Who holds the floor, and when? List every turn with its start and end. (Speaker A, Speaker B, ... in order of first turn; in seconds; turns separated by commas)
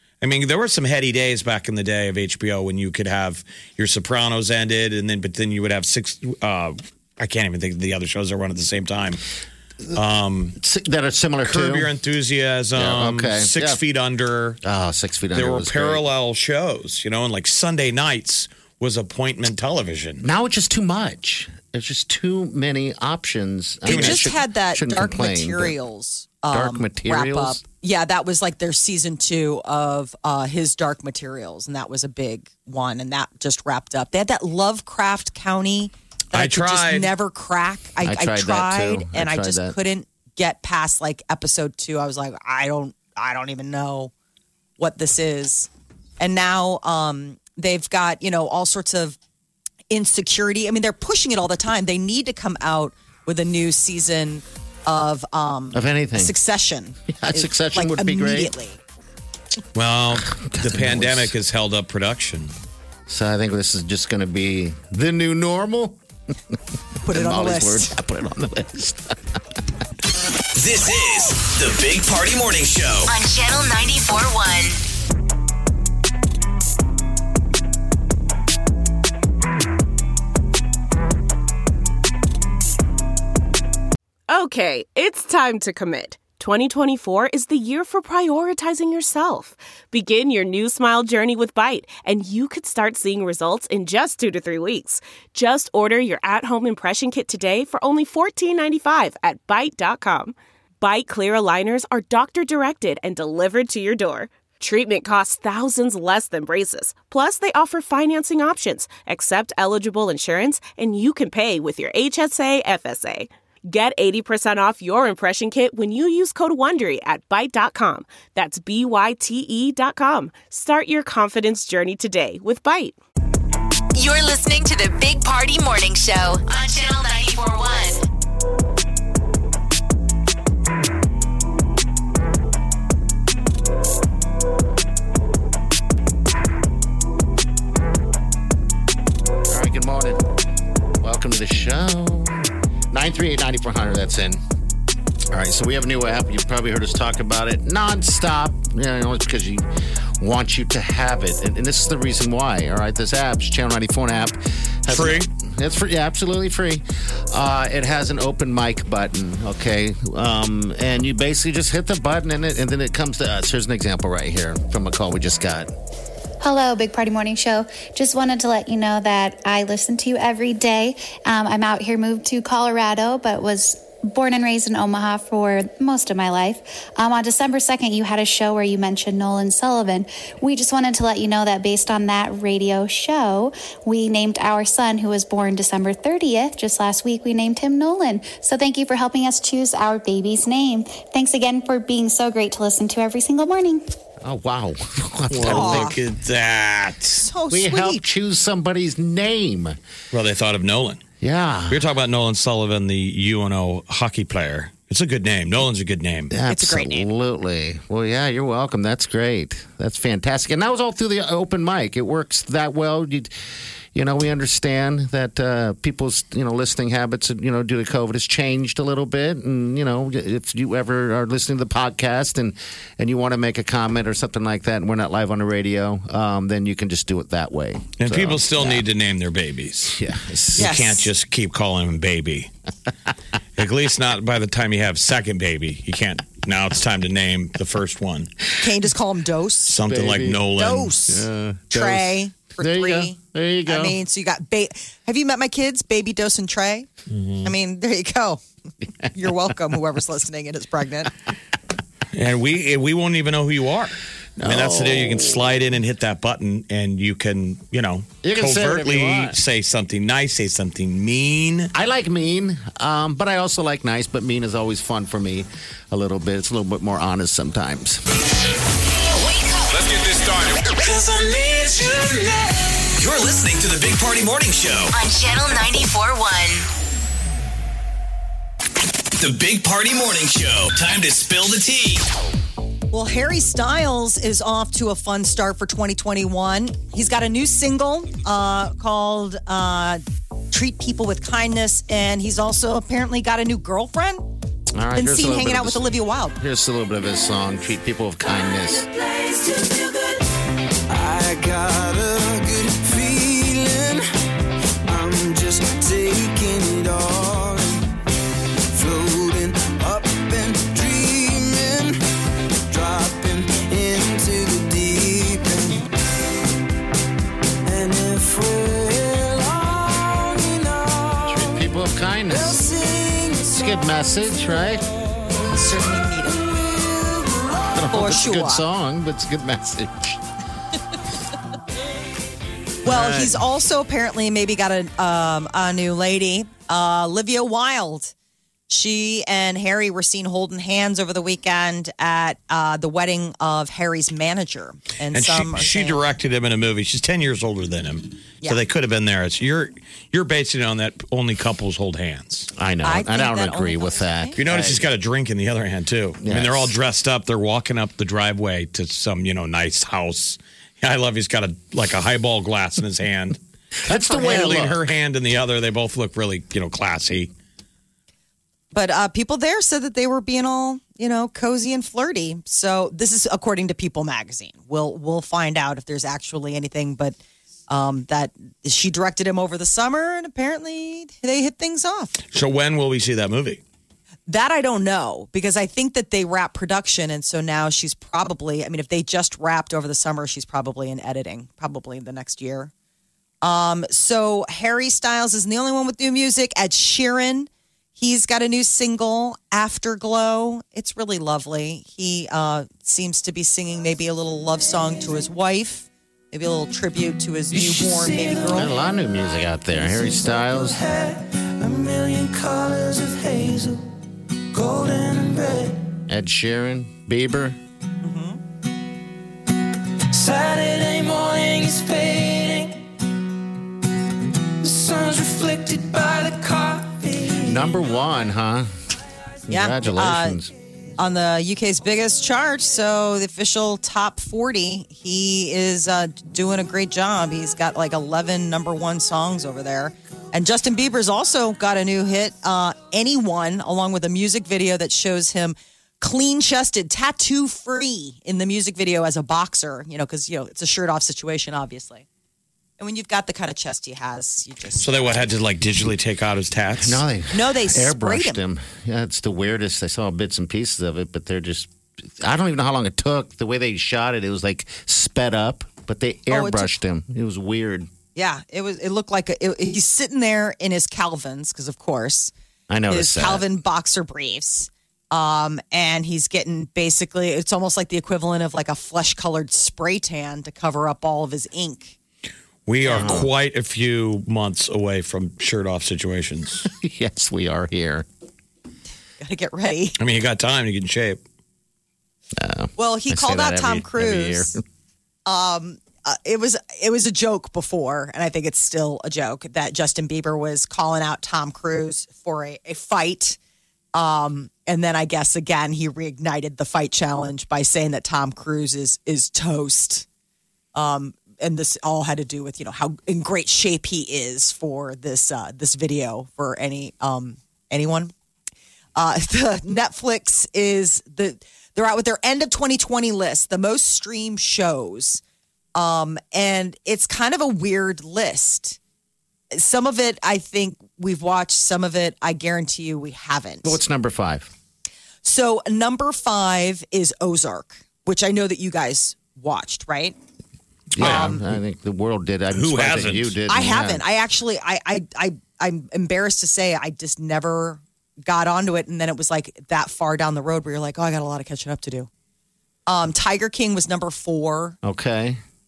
Speaker A: 0.2-9.2, Speaker A: 9.9-10.6, Speaker B: 10.6-11.9, Speaker A: 11.4-14.6, Speaker B: 12.8-13.8, Speaker B: 14.6-16.0, Speaker A: 15.3-20.2, Speaker B: 20.2-25.8, Speaker C: 23.9-44.1, Speaker A: 23.9-24.3, Speaker B: 26.5-27.6, Speaker A: 36.3-37.1, Speaker B: 38.0-39.8, Speaker C: 44.8-49.2, Speaker C: 49.9-58.8, Speaker B: 55.7-56.4, Speaker B: 57.1-58.5, Speaker A: 59.8-62.5, Speaker B: 60.3-61.3, Speaker B: 63.1-66.0, Speaker C: 67.0-68.0, Speaker B: 67.1-69.4, Speaker D: 70.5-73.1, Speaker E: 73.1-74.8, Speaker F: 84.3-123.0, Speaker E: 124.0-128.0, Speaker B: 139.5-140.2, Speaker B: 141.0-144.4, Speaker B: 145.3-149.7, Speaker B: 150.2-165.7, Speaker A: 154.9-155.3, Speaker G: 166.4-193.8, Speaker B: 194.2-195.9, Speaker A: 195.3-197.2, Speaker C: 195.4-196.0, Speaker C: 197.2-198.0, Speaker B: 197.5-199.8, Speaker A: 200.1-201.0, Speaker B: 201.2-201.8, Speaker A: 201.7-206.3, Speaker B: 206.3-213.3, Speaker C: 206.5-207.1, Speaker B: 213.9-228.8, Speaker A: 228.0-230.0, Speaker B: 229.9-230.8, Speaker A: 230.6-232.5, Speaker C: 230.6-231.1, Speaker A: 233.6-238.3, Speaker C: 238.6-239.8, Speaker A: 239.7-240.9, Speaker B: 239.9-240.5, Speaker C: 240.6-246.9, Speaker B: 241.1-244.0, Speaker A: 247.1-247.5, Speaker C: 247.4-248.4, Speaker C: 249.1-251.1, Speaker A: 252.1-261.7, Speaker B: 254.4-255.6, Speaker B: 258.2-259.4, Speaker B: 261.7-268.0, Speaker E: 269.2-269.6, Speaker H: 270.8-272.5, Speaker D: 273.0-274.9, Speaker E: 274.9-276.7, Speaker D: 279.2-282.1, Speaker C: 282.9-294.3, Speaker B: 294.7-298.9, Speaker C: 294.9-296.4, Speaker H: 298.2-300.2, Speaker H: 300.9-304.1, Speaker H: 304.9-307.9, Speaker H: 308.7-312.0, Speaker H: 312.7-315.9, Speaker H: 317.6-321.6, Speaker B: 321.3-322.6, Speaker H: 322.3-323.6, Speaker B: 323.5-324.9, Speaker C: 325.5-326.4, Speaker H: 326.4-327.7, Speaker B: 327.7-330.2, Speaker C: 327.9-328.6, Speaker C: 332.9-338.1, Speaker B: 332.9-333.3, Speaker C: 338.7-346.0, Speaker A: 345.1-352.5, Speaker B: 352.6-354.9, Speaker C: 352.8-354.4, Speaker A: 354.4-363.4, Speaker B: 356.2-356.7, Speaker B: 363.8-364.9, Speaker A: 364.0-367.3, Speaker C: 368.7-377.2, Speaker C: 377.7-382.2, Speaker A: 382.3-383.6, Speaker C: 384.3-392.7, Speaker C: 393.4-408.7, Speaker H: 407.5-408.7, Speaker B: 408.5-410.8, Speaker H: 409.7-413.9, Speaker H: 414.5-415.9, Speaker B: 416.1-417.6, Speaker C: 418.0-418.4, Speaker H: 420.1-422.9, Speaker H: 424.6-427.7, Speaker B: 427.4-428.7, Speaker B: 429.5-430.5, Speaker C: 429.5-430.4, Speaker C: 431.0-452.1, Speaker C: 452.8-455.3, Speaker A: 454.8-457.0, Speaker B: 456.8-467.9, Speaker C: 457.3-458.4, Speaker C: 466.3-466.7, Speaker C: 468.1-472.3, Speaker B: 472.7-473.4, Speaker C: 472.9-482.0, Speaker A: 482.7-486.7, Speaker B: 482.9-483.3, Speaker B: 486.6-488.1, Speaker C: 489.2-490.0, Speaker A: 490.0-491.2, Speaker B: 492.4-494.6, Speaker C: 492.8-494.6, Speaker C: 495.3-503.4, Speaker C: 503.9-510.1, Speaker C: 510.8-518.1, Speaker C: 519.0-525.2, Speaker C: 525.8-528.8, Speaker C: 529.5-533.8, Speaker B: 533.6-534.5, Speaker C: 535.2-540.2, Speaker B: 540.9-544.0, Speaker A: 541.0-541.4, Speaker C: 541.0-541.4, Speaker A: 542.5-543.3, Speaker C: 543.5-552.1, Speaker C: 552.9-554.8, Speaker B: 554.8-555.4